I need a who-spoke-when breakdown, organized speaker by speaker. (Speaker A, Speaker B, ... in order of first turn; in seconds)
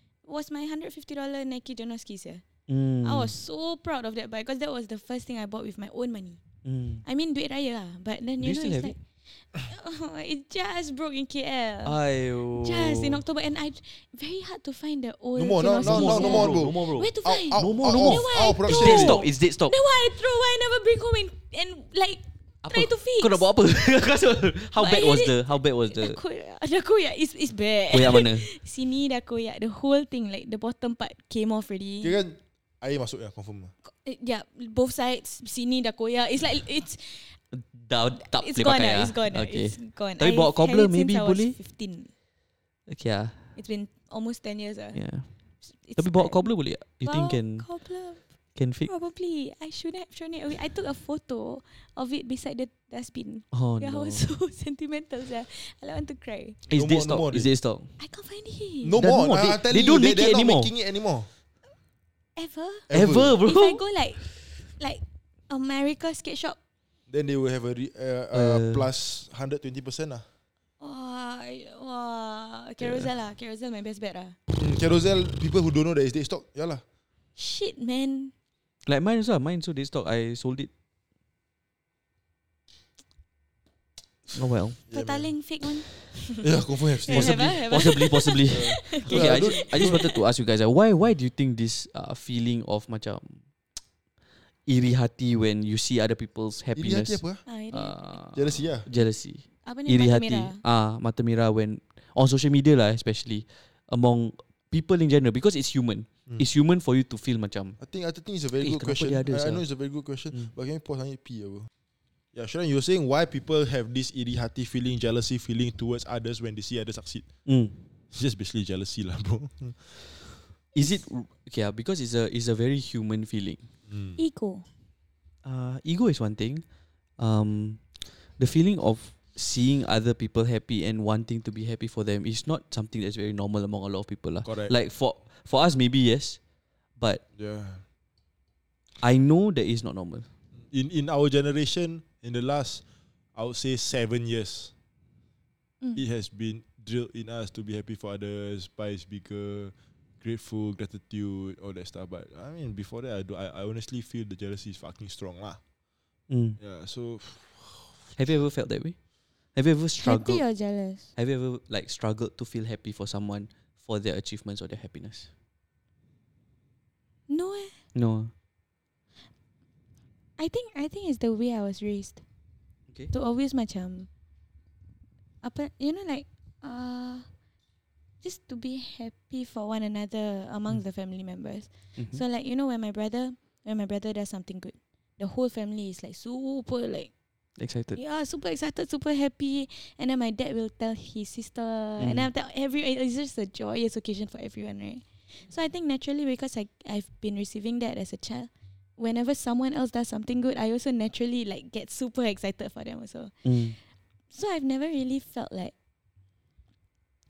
Speaker A: 0.2-2.4, 3.0-6.4, 7.0-12.0, 12.5-23.5, 24.8-32.2, 33.8-37.4, 38.3-42.1, 43.5-45.0, 45.6-48.2, 48.8-56.6, 58.0-59.0, 62.4-66.6, 70.8-74.3, 77.3-78.3, 84.9-86.4, 87.0-90.2, 97.5-98.0, 99.6-100.6, 124.2-124.7, 160.0-161.1, 167.3-167.8, 170.4-172.2, 173.1-174.1, 175.4-177.3, 178.2-187.1, 187.9-203.6, 204.3-205.7
Speaker B: 2.7-3.3, 6.6-7.0, 8.4-8.9, 11.8-13.2, 15.8-19.8, 22.6-26.2, 27.9-28.5, 37.5-41.6, 42.9-43.5, 44.9-45.3, 45.9-47.7, 48.5-48.9, 53.5-54.2, 56.7-57.9, 59.0-60.7, 62.9-63.8, 68.3-68.9, 72.8-73.1, 78.8-80.7, 84.3-84.8, 87.1-93.4, 94.7-97.2, 97.7-107.8, 108.6-109.6, 117.5-117.8, 120.7-123.7, 125.4-126.6, 127.2-136.4, 137.0-137.2, 139.0-140.3, 156.3-156.6, 158.2-158.9, 159.5-160.4, 161.1-165.3, 167.9-168.3, 182.0-182.2, 187.6-188.0, 192.0-192.3, 203.4-203.8
Speaker C: 15.3-19.2, 32.0-33.7, 56.7-57.5, 58.8-61.3, 62.9-63.4, 67.1-70.2, 74.5-76.8, 84.3-85.3, 86.4-87.8, 88.5-90.1, 96.7-97.4, 98.3-98.9, 107.8-111.7, 112.3-117.3, 118.1-120.3, 123.9-124.2, 134.4-134.7, 137.3-137.8, 140.6-142.8, 143.3-144.7, 145.9-155.6, 156.6-158.1